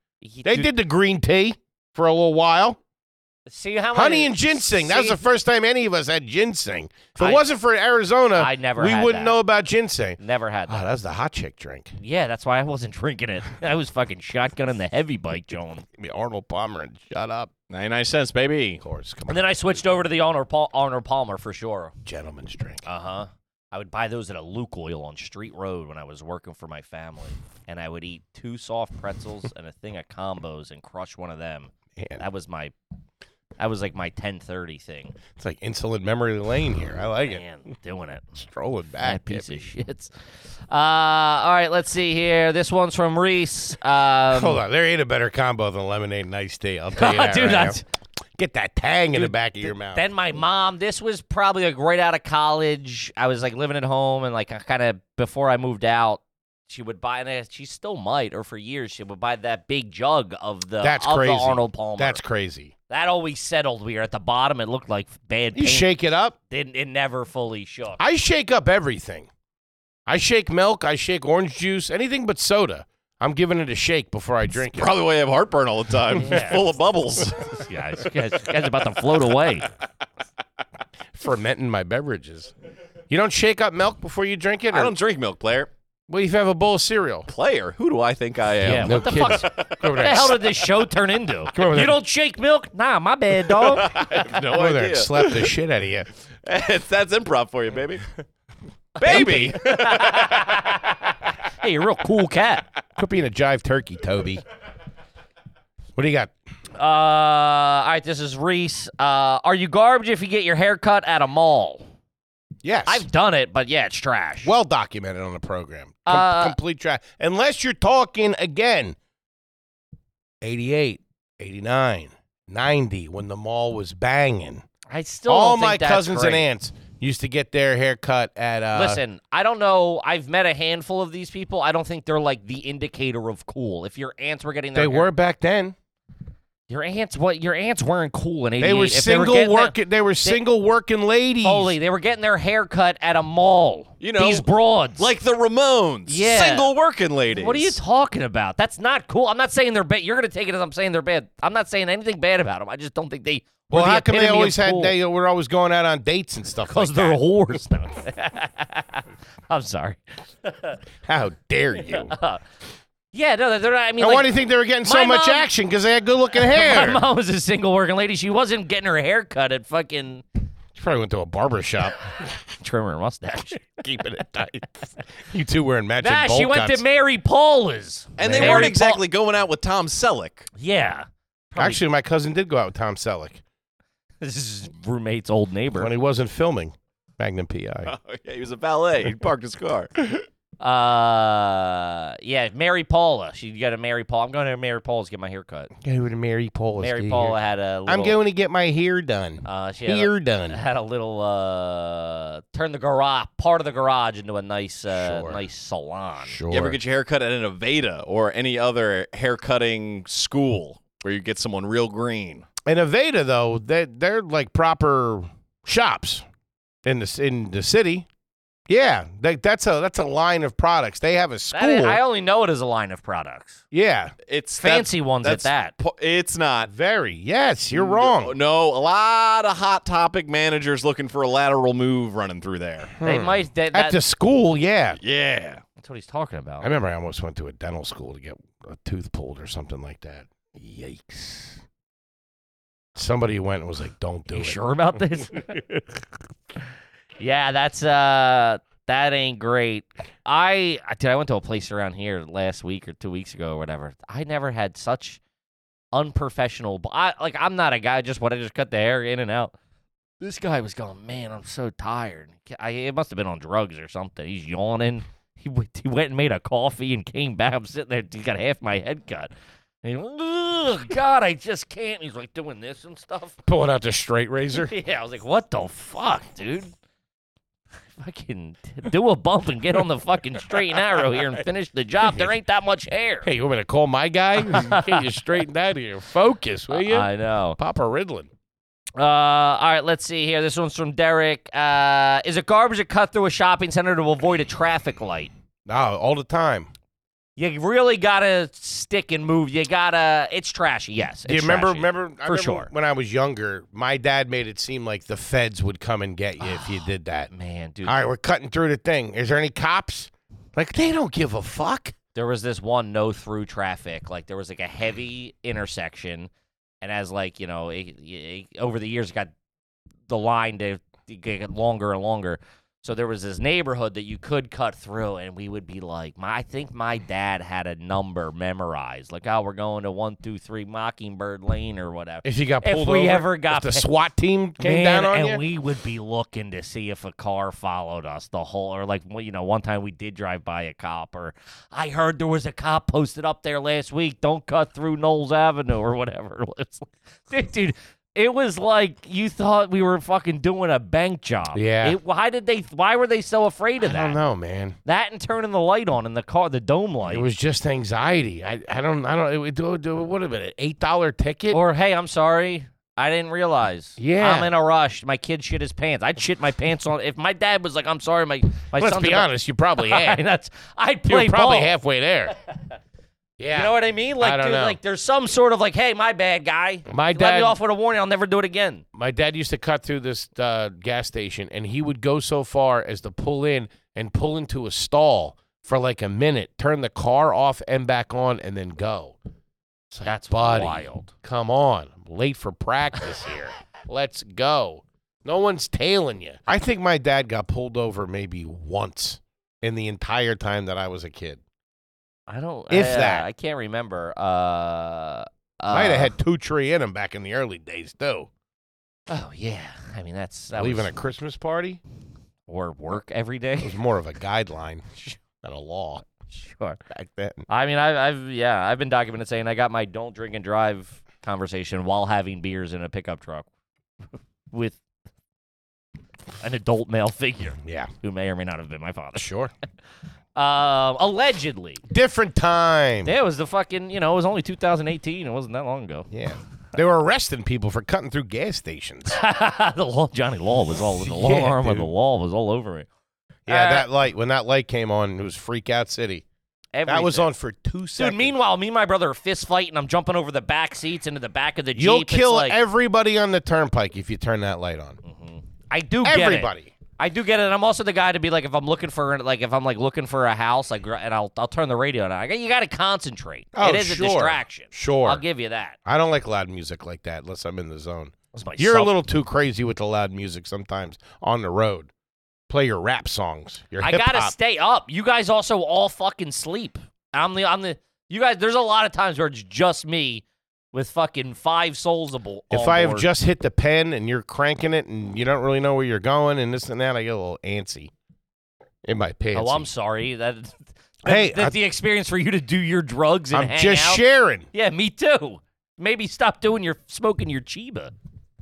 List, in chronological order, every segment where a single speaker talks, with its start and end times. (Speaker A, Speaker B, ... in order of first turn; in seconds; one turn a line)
Speaker A: 0.2-0.7
Speaker B: 0.4-2.8
Speaker A: 3.5-5.2
Speaker B: 3.9-11.9
Speaker A: 8.3-9.4
Speaker A: 10.2-10.9
Speaker A: 12.0-15.8
Speaker B: 16.0-17.5
Speaker C: 17.7-18.8
Speaker B: 18.8-19.8
Speaker A: 19.3-21.9
Speaker B: 22.1-22.8
Speaker A: 22.8-32.7
Speaker B: 31.9-32.2
Speaker A: 33.6-35.2
Speaker B: 35.3-37.4
Speaker A: 37.2-38.3
Speaker B: 38.4-39.6
Speaker A: 39.0-40.1
Speaker A: 40.7-44.6
Speaker B: 44.3-47.8
Speaker A: 47.0-47.8
Speaker B: 48.4-50.0
Speaker A: 49.1-62.2
Speaker B: 60.8-62.7
Speaker A: 62.9-65.9
Speaker B: 65.5-66.3
Speaker A: 66.5-68.0
Speaker B: 68.0-69.3
Speaker B: 70.1-74.9
Speaker C: 74.6-77.6
Speaker A: 76.1-76.7
Speaker A: 77.5-79.7
Speaker B: 81.1-82.5
Speaker B: 83.1-84.9
Speaker C: 84.7-85.7
Speaker B: 86.1-87.3
Speaker C: 87.3-90.4
Speaker A: 88.6-94.0
Speaker B: 88.7-90.4
Speaker B: 91.5-92.0
Speaker C: 93.5-95.5
Speaker B: 94.1-96.1
Speaker C: 96.4-98.0
Speaker A: 99.0-102.6
Speaker C: 99.0-100.4
Speaker B: 99.0-99.5
Speaker B: 103.0-104.4
Speaker B: 106.0-106.3
Speaker A: 106.8-111.8
Speaker B: 112.6-113.0
Speaker A: 112.9-114.5
Speaker B: 114.4-119.0
Speaker A: 116.0-116.5
Speaker B: 120.4-124.6
Speaker A: 124.9-126.4
Speaker B: 125.3-129.0
Speaker A: 128.7-135.1
Speaker B: 134.7-135.7
Speaker A: 136.7-140.4
Speaker B: 138.6-141.7
Speaker A: 141.4-145.1
Speaker C: 144.0-147.8
Speaker A: 146.1-146.7
Speaker A: 147.3-154.9
Speaker B: 153.7-157.2
Speaker A: 156.7-160.8
Speaker B: 161.0-162.1
Speaker A: 161.8-162.4
Speaker A: 163.1-164.3
Speaker B: 164.0-167.0
Speaker A: 164.8-165.5
Speaker A: 166.3-170.2
Speaker B: 170.7-172.0
Speaker A: 172.6-173.7
Speaker B: 173.8-174.7
Speaker B: 175.2-176.8
Speaker A: 176.0-179.0
Speaker C: 178.2-180.5
Speaker B: 178.2-178.7
Speaker A: 180.6-181.8
Speaker B: 181.6-183.4
Speaker A: 184.2-185.9
Speaker B: 185.8-187.9
Speaker C: 187.8-190.1
Speaker A: 190.6-195.7
Speaker B: 195.8-197.3
Speaker A: 196.8-198.2
Speaker B: 197.9-200.6
Speaker A: 199.4-206.3
Speaker B: 204.9-205.4
Speaker B: 206.2-206.8
Speaker C: 206.5-212.4
Speaker B: 212.7-216.2
Speaker B: 216.8-218.1
Speaker B: 218.7-222.0
Speaker A: 221.5-223.6
Speaker B: 223.7-224.1
Speaker C: 224.2-226.7
Speaker A: 224.6-225.7
Speaker B: 226.7-228.3
Speaker C: 227.7-232.9
Speaker B: 233.0-235.0
Speaker A: 233.0-234.0
Speaker C: 235.0-235.6
Speaker A: 235.8-236.7
Speaker B: 236.6-241.5
Speaker B: 242.9-244.6
Speaker A: 244.3-246.0
Speaker A: 247.2-255.2
Speaker A: 255.9-259.5
Speaker A: 260.2-269.3
Speaker A: 269.8-273.4
Speaker B: 273.4-274.7
Speaker A: 274.6-276.7
Speaker A: 277.9-283.3
Speaker B: 283.2-288.3
Speaker A: 284.4-285.2
Speaker A: 286.7-287.6
Speaker A: 289.0-295.3
Speaker B: 295.6-296.7
Speaker A: 297.4-302.7
Speaker B: 301.3-307.3
Speaker A: 306.4-307.9
Speaker B: 307.8-311.9
Speaker A: 312.1-316.3
Speaker A: 316.8-319.3
Speaker A: 320.1-333.9
Speaker B: 332.2-335.4
Speaker A: 334.6-354.2
Speaker B: 351.5-352.0
Speaker B: 353.8-354.8
Speaker A: 354.8-357.2
Speaker B: 357.1-361.6
Speaker A: 361.5-371.8
Speaker B: 364.0-364.5
Speaker B: 368.8-370.2
Speaker B: 371.1-372.3
Speaker B: 373.4-374.8
Speaker A: 373.5-378.8
Speaker B: 376.9-377.6
Speaker B: 378.9-389.1
Speaker B: 389.9-401.4
Speaker A: 390.0-391.1
Speaker A: 402.3-406.1
Speaker B: 402.7-403.3
Speaker B: 405.7-408.3
Speaker A: 409.1-410.9
Speaker B: 410.5-411.8
Speaker A: 412.5-413.8
Speaker B: 413.6-416.0
Speaker A: 416.3-416.8
Speaker B: 416.9-417.5
Speaker A: 417.5-423.5
Speaker A: 424.5-424.8
Speaker A: 426.4-429.3
Speaker B: 427.6-427.9
Speaker B: 429.1-429.5
Speaker A: 430.4-431.8
Speaker B: 431.9-433.1
Speaker A: 433.1-436.1
Speaker B: 436.1-439.2
Speaker A: 439.1-442.9
Speaker B: 441.0-441.9
Speaker B: 443.5-446.2
Speaker A: 443.5-443.9
Speaker A: 446.7-447.3
Speaker B: 446.9-448.3
Speaker A: 448.0-452.6
Speaker B: 451.8-455.0
Speaker A: 455.0-465.8
Speaker B: 456.0-456.7
Speaker B: 463.5-465.2
Speaker B: 465.9-471.9
Speaker A: 468.3-468.9
Speaker B: 472.5-474.3
Speaker A: 473.8-483.1
Speaker B: 482.5-487.9
Speaker B: 488.8-489.7
Speaker A: 489.3-494.0
Speaker B: 491.0-491.6
Speaker B: 493.3-494.5
Speaker A: 494.5-497.9